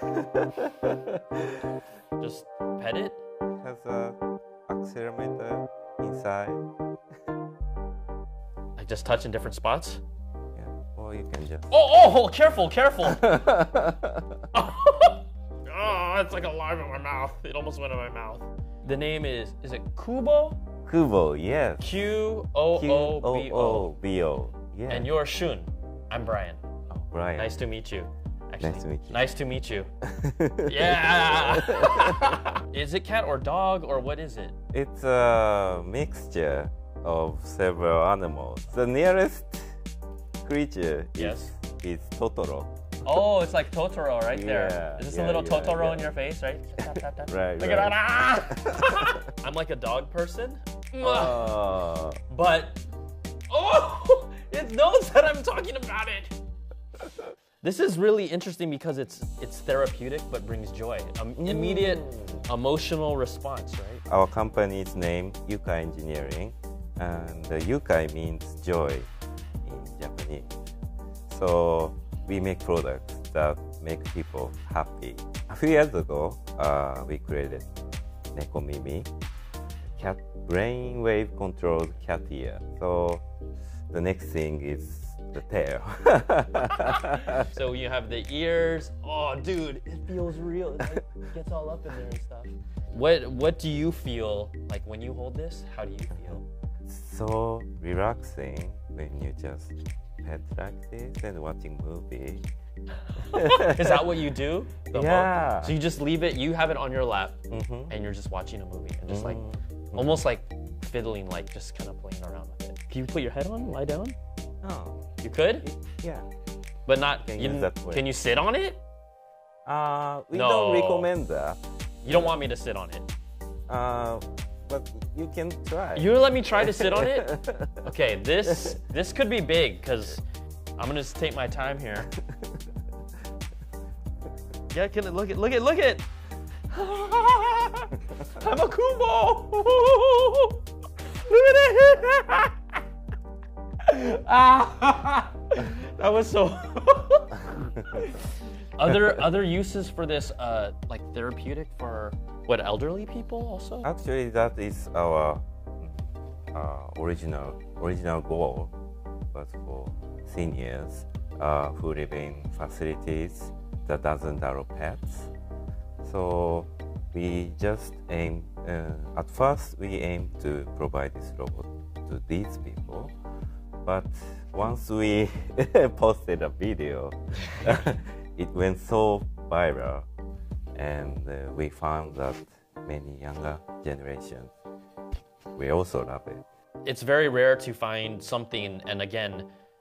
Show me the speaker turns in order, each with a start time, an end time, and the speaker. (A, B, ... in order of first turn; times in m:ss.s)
0:00.2-0:01.1 A
0:02.2-0:03.2 B
0:03.6-0:06.7 A
0:08.8-0:10.0 B
0:10.6-0:11.7 A
0:11.7-0:13.3 B
0:13.0-0:14.4 A
0:14.5-0:20.6 B
0:20.9-0:22.0 A
0:21.8-0:23.9 B
0:22.7-0:25.1 A
0:24.9-0:26.6 B
0:26.9-0:27.5 A
0:27.4-0:29.9 B
0:28.6-0:29.3 A
0:30.0-0:32.5 A
0:30.6-0:34.6 B
0:34.7-0:39.8 A
0:40.4-0:42.7 A
0:41.2-0:41.5 B
0:43.0-0:51.6 B
0:44.3-0:46.1 A
0:46.8-0:49.2 A
0:51.0-0:52.2 A
0:52.3-0:52.8 B
0:53.5-0:56.3 B
0:57.6-1:04.0 B
1:01.4-1:02.4 A
1:04.1-1:09.1 A
1:09.6-1:10.5 A
1:11.3-1:17.7 A
1:18.3-1:19.1 A
1:19.9-1:23.2 A
1:23.9-1:27.5 A
1:26.8-1:36.5 B
1:36.9-1:42.4 A
1:43.0-1:49.4 B
1:43.2-1:44.2 A
1:44.9-1:45.8 A
1:47.5-1:47.9 A
1:49.1-1:50.2 A
1:50.0-1:54.2 B
1:54.6-1:55.0 A
1:55.2-1:55.7 B
1:55.6-1:56.3 A
1:56.9-1:58.8 B
1:57.2-1:58.1 A
1:59.7-2:02.4 A
2:00.3-2:01.1 B
2:02.0-2:03.1 B
2:03.7-2:07.8 A
2:06.0-2:10.2 B
2:08.5-2:08.8 A
2:10.8-2:12.1 B
2:14.7-2:16.0 B
2:16.7-2:20.6 B
2:21.2-2:22.6 B
2:23.8-2:28.3 B
2:28.8-2:33.9 B
2:33.8-2:38.7 A
2:39.3-2:45.3 A
2:46.0-2:53.1 A
2:53.8-3:00.1 A
3:00.8-3:04.5 A
3:05.6-3:06.4 A
3:06.8-3:09.5 B